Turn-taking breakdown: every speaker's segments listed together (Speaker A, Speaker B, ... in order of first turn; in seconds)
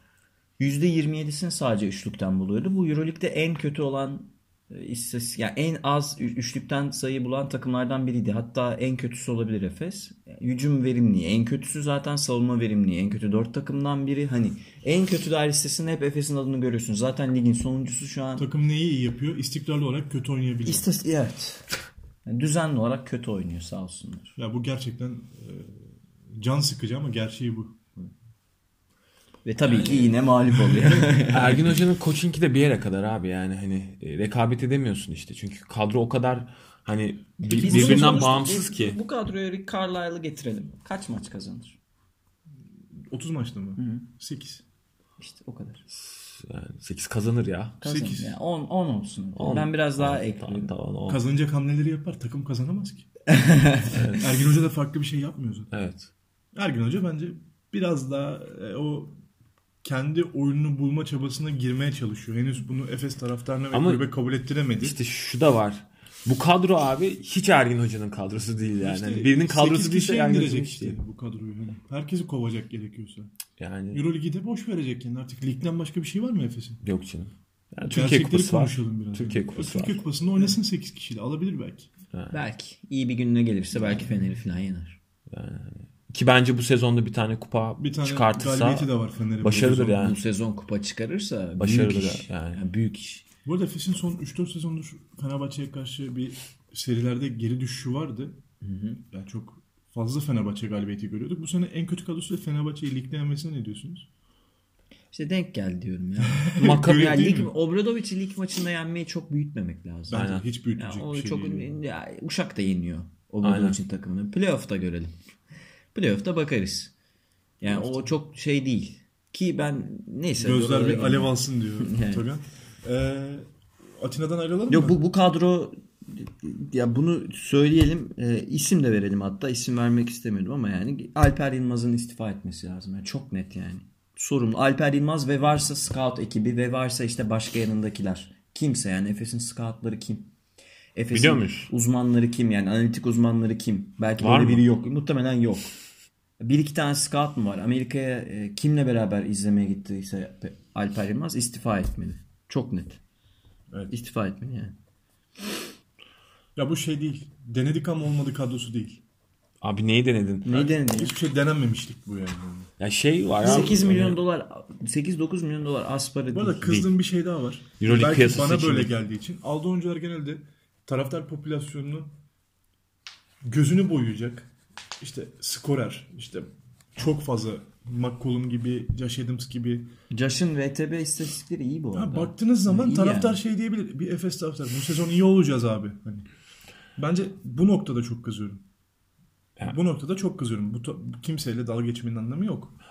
Speaker A: 0.6-18.5, 20.6-21.6, 22.2-24.4, 29.4-31.7, 37.5-41.8, 43.8-44.1, 45.2-45.9, 47.8-50.7, 53.3-54.0, 82.3-85.0, 90.0-93.2, 98.6-99.0, 105.1-115.2, 115.9-116.9, 117.6-122.2, 124.7-140.3, 140.9-145.7, 146.4-153.0, 153.9-154.8, 160.4-161.2, 163.4-166.8, 180.1-183.4
Speaker B: 18.4-20.9, 24.4-27.8, 30.6-31.2, 37.5-38.4, 43.0-44.6, 47.8-48.4, 51.1-53.1, 54.2-55.7, 56.5-59.2, 59.8-65.0, 68.8-73.3, 73.9-76.8, 77.9-81.9, 87.8-90.1, 93.5-98.4, 99.1-104.1, 106.3-107.5, 110.1-111.8, 117.6-118.1, 120.4-125.0, 156.6-159.0, 160.5-162.7, 163.4-163.8, 166.3-172.1, 173.4-179.9, 181.9-186.3, 187.0-188.6, 189.6-192.8
Speaker C: 29.7-30.1, 31.3-39.0, 45.9-47.8, 49.4-51.2, 53.9-54.3, 55.7-56.1, 63.7-64.1, 64.8-71.0, 73.6-74.0, 76.8-80.0, 85.3-90.2, 91.6-92.6, 106.6-107.2, 110.1-110.5, 113.4-113.8, 141.1-141.7, 144.2-144.7, 159.6-160.7, 162.8-164.2, 167.8-168.9